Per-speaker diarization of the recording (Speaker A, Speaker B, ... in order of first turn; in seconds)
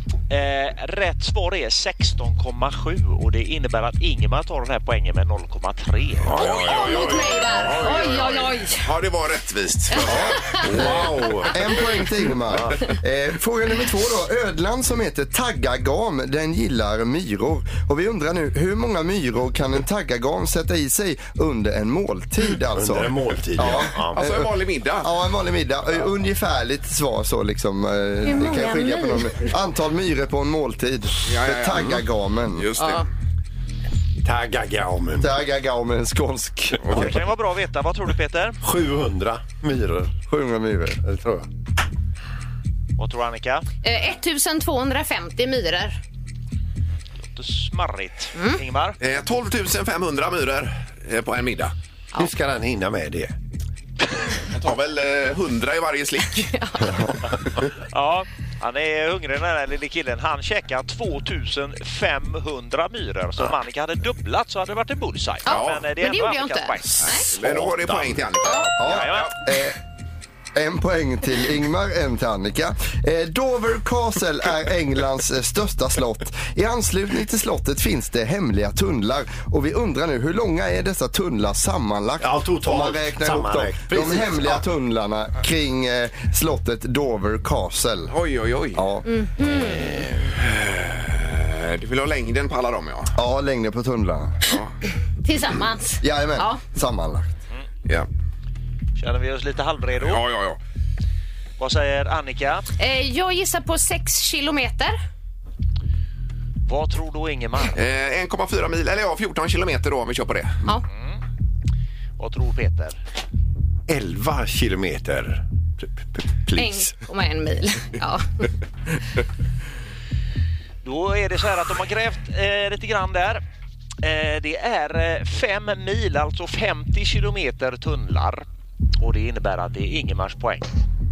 Speaker A: 0.3-6.4, 36.9-38.6, 43.0-43.6, 47.3-49.0, 57.9-67.4, 68.8-69.3, 99.0-100.2, 101.6-102.7, 106.7-107.8, 110.9-111.2, 112.2-113.0, 120.8-123.4, 124.0-128.5, 129.0-130.7
Speaker B: 6.3-11.5, 23.7-25.1, 31.2-32.0, 32.5-33.1, 36.8-37.1, 49.0-51.7, 54.5-56.5, 65.5-65.9, 67.0-69.3, 88.1-88.8, 89.6-93.2, 94.5-94.7, 100.0-100.6, 107.7-110.6
Speaker C: 6.4-8.3, 10.0-11.6, 22.7-24.3, 34.2-35.4, 38.6-40.1, 41.0-41.5, 52.2-53.4, 67.4-68.2, 82.2-84.6, 113.9-116.9
Speaker D: 6.5-8.9, 28.2-29.3, 32.8-33.1, 43.8-46.0, 48.4-48.6, 56.5-57.0, 65.5-67.3, 68.4-68.7, 89.1-89.8, 95.2-96.6, 102.8-105.0, 116.6-118.4
Speaker E: 10.0-32.7, 35.2-37.1, 40.3-41.0, 68.8-69.8, 70.5-88.1, 88.8-89.1, 93.2-94.4, 96.0-97.3